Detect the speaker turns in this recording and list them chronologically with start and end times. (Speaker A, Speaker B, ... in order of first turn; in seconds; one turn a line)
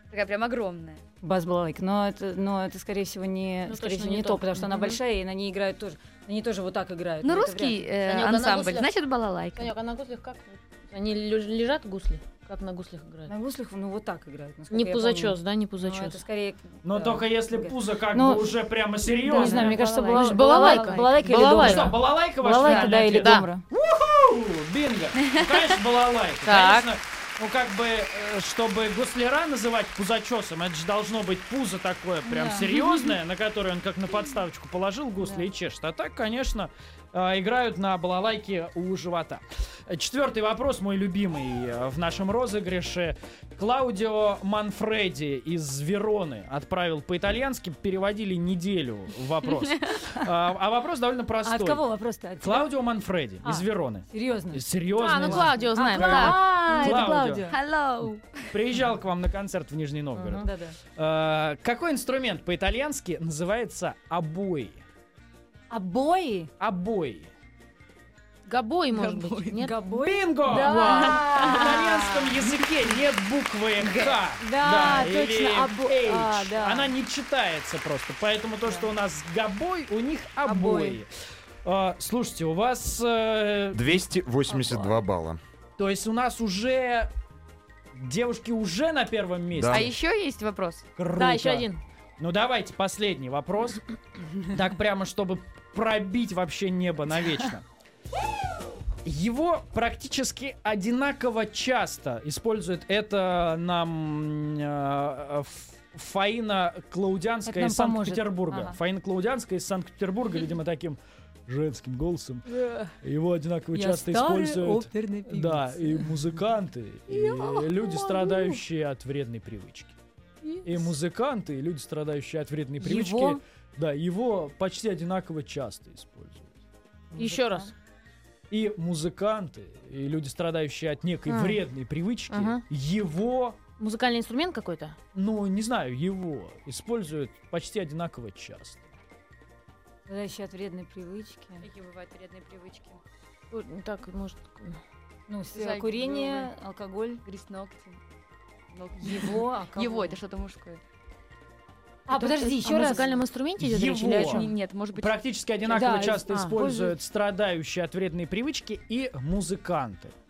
Speaker A: 0.1-1.0
Speaker B: 1.2-7.9
Speaker C: 3.7-5.0
Speaker A: 7.2-9.7
Speaker C: 8.1-8.9
Speaker C: 9.6-13.3
Speaker B: 13.3-18.5
Speaker C: 14.7-16.2
Speaker D: 16.8-19.8
Speaker B: 19.1-23.6
Speaker A: 19.3-21.2
Speaker C: 20.0-22.0
Speaker D: 21.4-51.8
Speaker A: 22.6-22.9
Speaker C: 23.0-23.5
Speaker C: 26.4-26.9
Speaker B: 32.3-33.1
Speaker B: 51.4-52.7
Speaker D: 52.4-57.5
Speaker B: 53.4-54.6
Speaker C: 54.9-56.6
Speaker B: 55.2-57.6
Speaker A: 56.7-58.5
Speaker D: 58.5-60.5
Speaker B: 60.2-60.8
Speaker D: 61.0-64.8
Speaker B: 65.7-66.5
Speaker D: 66.6-67.3
Speaker C: 68.5-69.8
Speaker A: 68.9-69.7
Speaker B: 69.5-72.4
Speaker D: 69.9-81.1
Speaker C: 70.5-71.5
Speaker A: 70.9-71.7
Speaker B: 73.8-76.9
Speaker B: 80.4-81.0
Speaker D: 81.7-83.9
Speaker E: 83.7-85.4
Speaker B: 84.5-84.8
Speaker D: 85.8-87.1
Speaker D: 87.9-89.9
Speaker E: 89.5-89.9
Speaker A: 89.7-90.9
Speaker D: 91.0-93.8
Speaker C: 91.1-91.8
Speaker D: 94.4-97.6
Speaker D: 99.0-120.0
Speaker B: 107.5-108.8
Speaker B: 113.7-116.3
Speaker C: 117.1-118.5
Speaker D: 120.7-126.5
Speaker B: 122.8-123.4
Speaker B: 127.1-127.7
Speaker C: 127.2-127.7
Speaker D: 128.5-133.6
Speaker C: 131.3-131.6
Speaker C: 132.3-132.6
Speaker C: 133.8-135.0
Speaker D: 135.2-138.8
Speaker B: 140.1-141.6
Speaker A: 141.6-143.0
Speaker C: 143.5-144.8
Speaker B: 145.3-147.2
Speaker A: 145.5-146.5
Speaker A: 147.2-148.0
Speaker A: 148.7-150.8
Speaker B: 149.0-150.2
Speaker B: 152.1-153.3
Speaker A: 152.1-152.9
Speaker C: 152.6-154.5
Speaker D: 153.6-160.1
Speaker A: 154.2-155.2
Speaker B: 155.7-156.9
Speaker C: 156.3-156.7